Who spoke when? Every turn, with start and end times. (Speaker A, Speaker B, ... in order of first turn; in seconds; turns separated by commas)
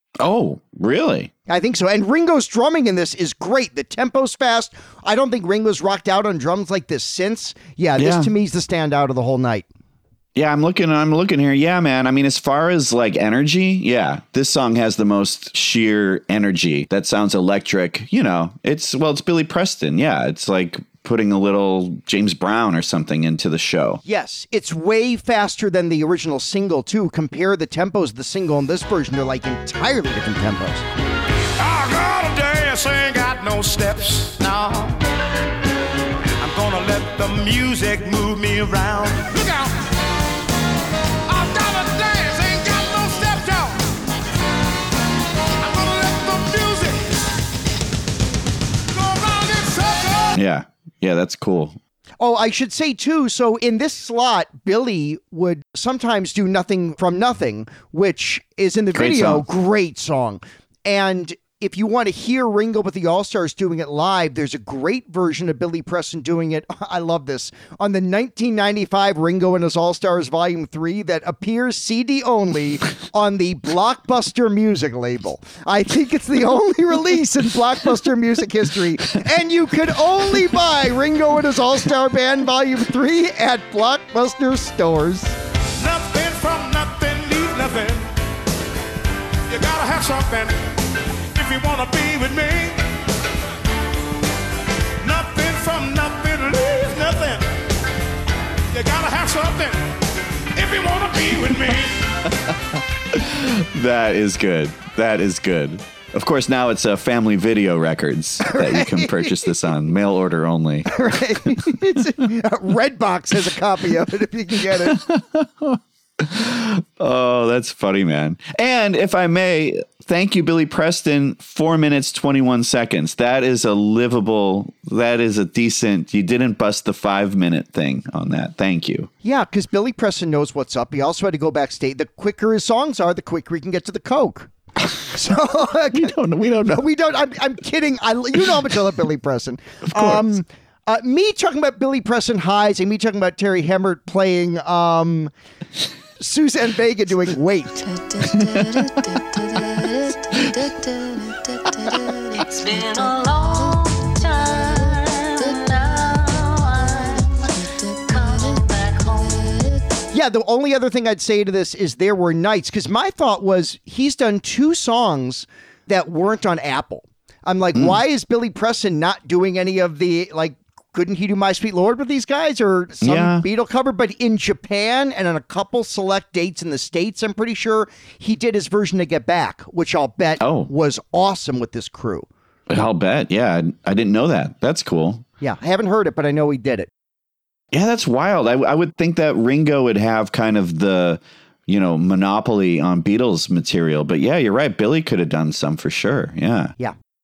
Speaker A: 0.2-1.3, Speaker B: 1.5-9.7, Speaker A: 8.0-8.3, Speaker A: 10.3-24.0, Speaker B: 24.0-30.8, Speaker C: 31.6-35.0, Speaker C: 36.4-39.8, Speaker C: 41.3-43.9, Speaker C: 45.6-47.1, Speaker C: 48.9-50.3, Speaker A: 50.3-51.8, Speaker B: 52.2-85.3, Speaker A: 58.9-59.4, Speaker C: 85.8-88.1, Speaker C: 89.5-90.6, Speaker C: 91.3-92.8, Speaker C: 95.0-97.5, Speaker C: 98.7-99.8, Speaker C: 100.5-102.0, Speaker A: 103.1-110.9, Speaker B: 108.4-109.5, Speaker B: 110.9-115.0, Speaker A: 114.7-129.1, Speaker B: 129.2-136.1, Speaker A: 135.9-136.8, Speaker B: 136.7-145.3, Speaker A: 139.9-140.3, Speaker B: 146.2-147.9, Speaker D: 147.9-159.8, Speaker A: 148.5-148.8, Speaker B: 160.1-182.3, Speaker A: 173.0-173.4, Speaker A: 180.4-180.7, Speaker A: 182.7-185.2, Speaker B: 185.4-186.9, Speaker A: 187.7-196.7